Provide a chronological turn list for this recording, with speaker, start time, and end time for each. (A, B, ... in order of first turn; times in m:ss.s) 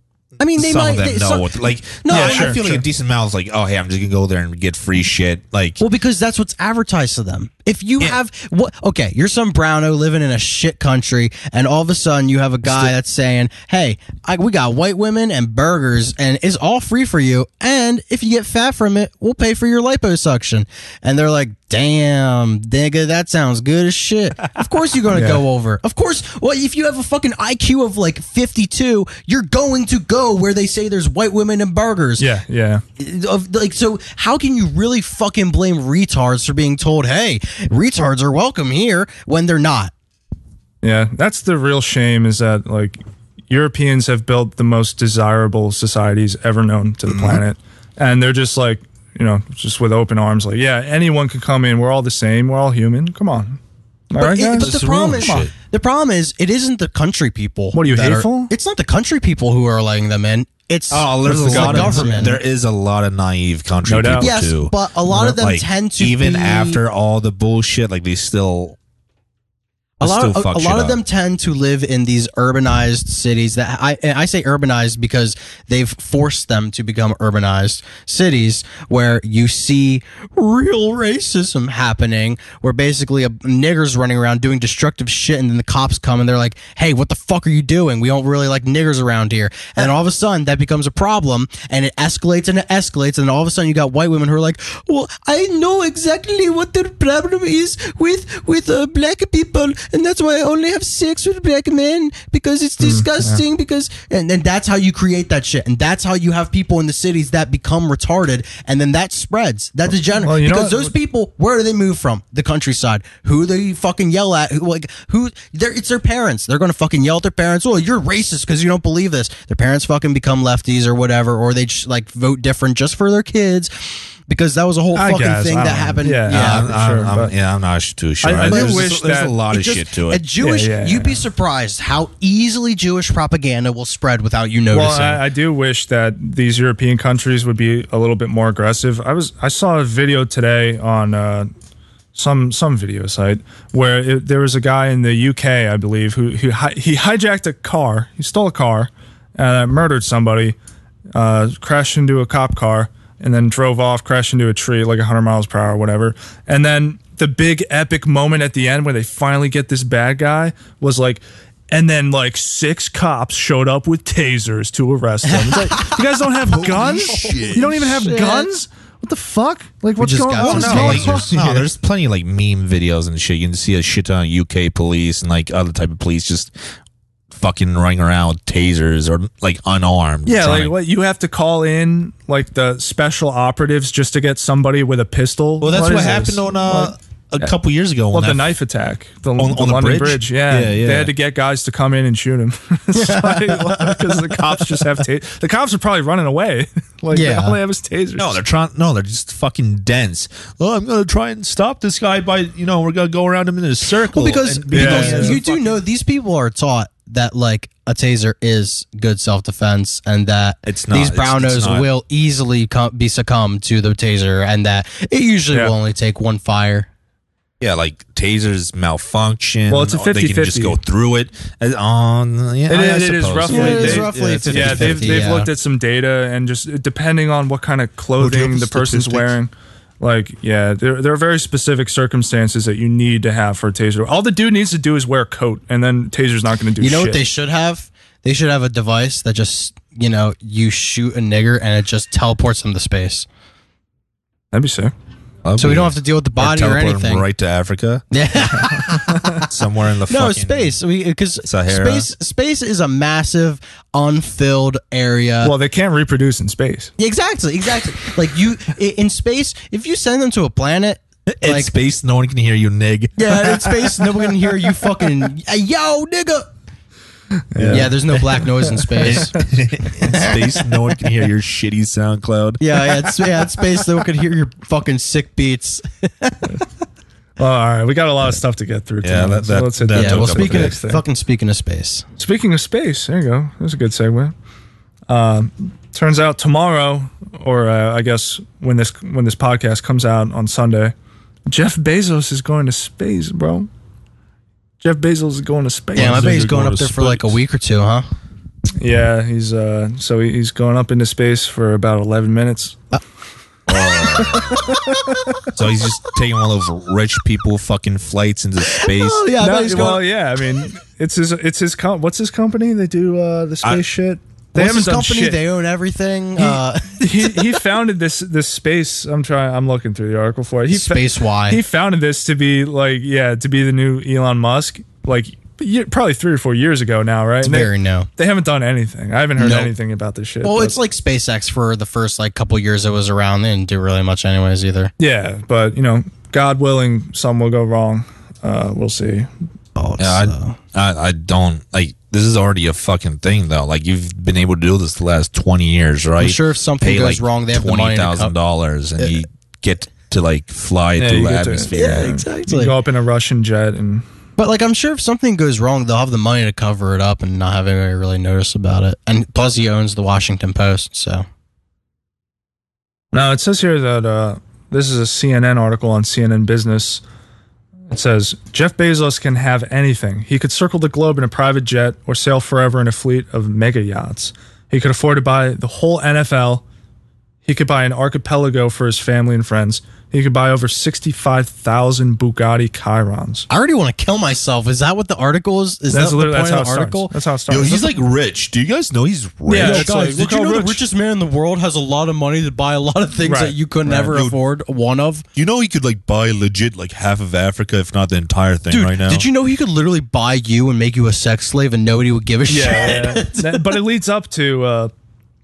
0:00.4-0:02.8 A
0:00.6-0:05.8 B
0:02.1-0:02.8 C
0:05.8-0:32.3 A
0:12.6-0:12.9 B
0:25.1-0:25.4 C
0:32.2-0:32.8 C
0:33.0-0:39.9 A
0:40.8-0:53.6 C
0:47.1-0:47.4 B
0:54.1-0:55.5 C
0:54.2-1:02.4 A
0:54.6-0:55.5 B
0:57.7-0:58.5 C
1:00.9-1:08.8 B
1:01.3-1:02.4 C
1:03.8-1:04.3 C
1:04.2-1:06.8 A
1:10.0-1:11.0 B
1:10.0-2:03.7 A
1:42.8-1:43.4 C
1:50.2-1:50.9 C
2:04.3-2:06.7 A
2:04.9-2:07.3 C
2:06.3-2:10.2 B
2:08.2-2:09.8 C
2:08.4-2:08.9 A
2:10.1-2:15.2 A
2:10.4-2:11.2 C
2:14.7-2:21.5 C
2:22.2-2:30.6 C
2:31.2-2:51.7 C
2:45.3-2:46.0 A
2:46.5-2:48.1 B
2:46.7-2:48.5 A
2:50.0-2:51.3 A
2:50.4-2:56.5 B
2:57.3-3:00.7 B
3:00.3-3:07.5 C
3:05.6-3:08.6 B
3:08.1-3:18.4 C
3:09.4-3:11.1 B
3:13.0-3:14.6 A
3:17.1-3:17.6 A
3:18.2-3:25.8 B
3:24.0-3:36.9 A
3:24.7-3:25.4 C
3:30.7-3:31.9 B
3:37.6-3:45.3 B
3:39.7-3:40.8 C
3:42.7-3:57.2 C
3:43.5-3:45.5 A
3:48.2-3:49.3 B
3:56.8-4:03.3 A
4:04.5-4:04.9 C
4:05.4-4:08.1 B
4:05.6-4:07.2 A
4:08.1-4:09.4 A
4:09.5-4:10.8 B
4:10.1-4:15.5 A
4:11.4-4:12.1 B
4:15.4-4:16.9 C
4:17.0-4:21.7 A
4:21.3-4:23.9 B
4:23.2-4:26.5 A
4:27.5-4:27.9 C
4:27.6-4:28.0 B
4:27.7-4:29.4 A
4:28.7-4:29.3 C
4:29.0-4:32.8 B
4:30.0-4:30.7 A
4:32.6-4:36.4 A
4:37.4-4:41.0 C
4:39.0-4:40.8 B
4:39.9-4:42.0 A
4:42.2-4:44.3 C
4:45.1-4:50.9 C
4:51.5-4:53.7 C
4:54.8-4:57.3 C
4:56.0-4:58.1 A
4:56.0-4:56.4 B
4:58.8-5:02.8 C
5:03.7-5:04.7 B
5:03.8-5:05.0 A
5:05.5-5:09.2 B
5:08.7-5:10.1 A
5:09.4-5:15.4 C
5:14.6-5:17.5 A
5:16.4-5:30.8 C
5:20.7-5:21.6 A
5:27.4-5:28.1 A
5:29.4-5:29.7 A
5:30.4-5:34.9 A
5:35.0-5:39.3 C
5:39.8-5:40.6 A
5:40.0-5:52.2 B
5:46.2-5:48.3 A
5:51.0-5:54.0 C
5:51.7-5:52.8 A
5:54.4-6:01.2 A
6:03.1-6:07.0 C
6:07.9-6:16.6 C
6:17.4-6:23.5 C
6:23.5-6:27.2 A
6:25.9-6:27.9 C
6:27.5-6:29.9 B
6:29.5-6:30.8 C
6:29.6-6:35.2 A
6:33.2-6:34.1 C
6:33.9-6:34.4 B
6:35.4-6:39.3 B
6:38.7-6:43.8 A
6:42.5-6:44.9 C